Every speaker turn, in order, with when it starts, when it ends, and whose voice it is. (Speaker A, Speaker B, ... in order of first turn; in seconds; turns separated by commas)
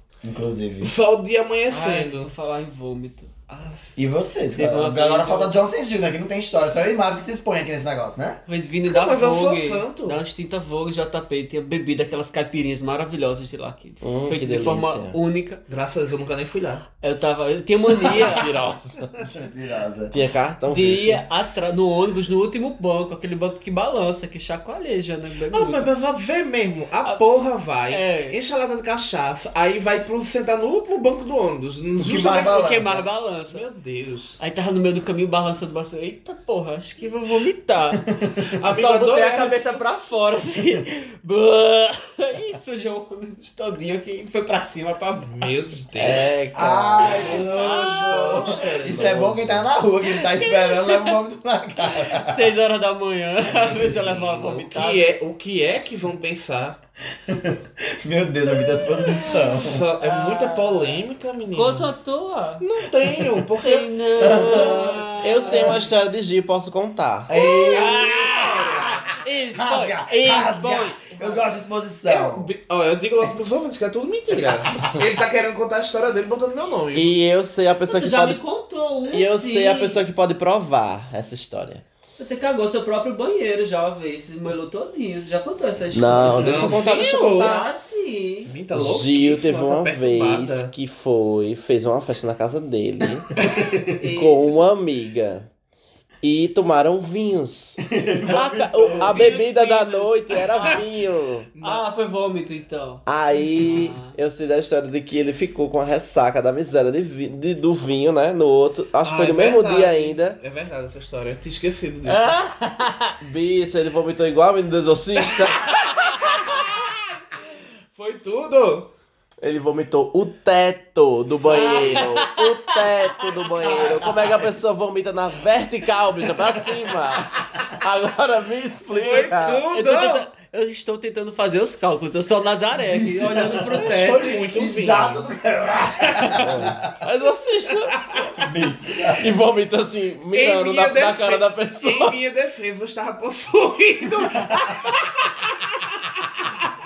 Speaker A: 0.2-0.9, Speaker B: 0.8-2.3, Speaker C: 1.7-3.9, Speaker A: 4.0-8.4, Speaker C: 4.5-5.6, Speaker C: 8.5-15.6, Speaker B: 8.9-10.2, Speaker D: 14.0-15.2, Speaker B: 15.7-16.9, Speaker C: 17.0-18.5, Speaker D: 18.1-19.1, Speaker A: 19.2-20.2, Speaker D: 20.1-21.2, Speaker C: 20.7-25.9, Speaker B: 25.5-32.7, Speaker C: 27.9-28.4, Speaker A: 32.0-33.1, Speaker C: 32.5-33.6, Speaker B: 33.5-34.4, Speaker C: 34.4-38.0, Speaker A: 38.2-38.5, Speaker B: 38.6-39.8, Speaker C: 38.6-45.8, Speaker B: 45.3-46.3, Speaker D: 46.0-49.7, Speaker A: 46.5-52.5, Speaker C: 47.0-48.4, Speaker B: 47.2-48.7, Speaker C: 50.0-51.2, Speaker C: 52.0-55.2, Speaker B: 53.6-56.8, Speaker A: 57.3-59.9, Speaker C: 59.0-61.0, Speaker B: 59.6-61.9, Speaker C: 61.5-62.6, Speaker B: 62.6-63.9, Speaker A: 63.0-63.4, Speaker C: 63.6-65.6, Speaker A: 64.2-65.8, Speaker D: 65.2-67.3, Speaker A: 67.3-72.5, Speaker C: 67.3-71.5, Speaker B: 67.8-69.1, Speaker B: 72.1-77.1, Speaker D: 76.9-78.4, Speaker C: 77.9-80.0, Speaker D: 79.1-81.8, Speaker C: 82.2-88.5, Speaker D: 85.9-87.7, Speaker B: 86.3-87.6, Speaker B: 88.5-90.7, Speaker D: 88.7-93.4, Speaker A: 93.4-93.9, Speaker C: 94.0-94.7, Speaker D: 94.0-95.5, Speaker D: 96.2-101.5, Speaker A: 97.9-99.3, Speaker C: 98.8-100.8, Speaker B: 101.5-101.8, Speaker C: 101.6-103.0, Speaker D: 103.1-110.4, Speaker C: 103.6-104.1, Speaker B: 109.0-112.4, Speaker C: 112.1-113.2, Speaker D: 113.2-116.2, Speaker B: 115.3-117.0, Speaker B: 118.0-118.9, Speaker D: 119.4-129.6, Speaker C: 121.5-123.1, Speaker C: 123.6-124.1, Speaker B: 128.9-130.3, Speaker C: 129.7-134.2, Speaker A: 132.9-137.0, Speaker B: 133.3-135.2, Speaker D: 136.4-138.0, Speaker A: 138.3-139.3, Speaker D: 139.2-142.2, Speaker B: 140.3-146.7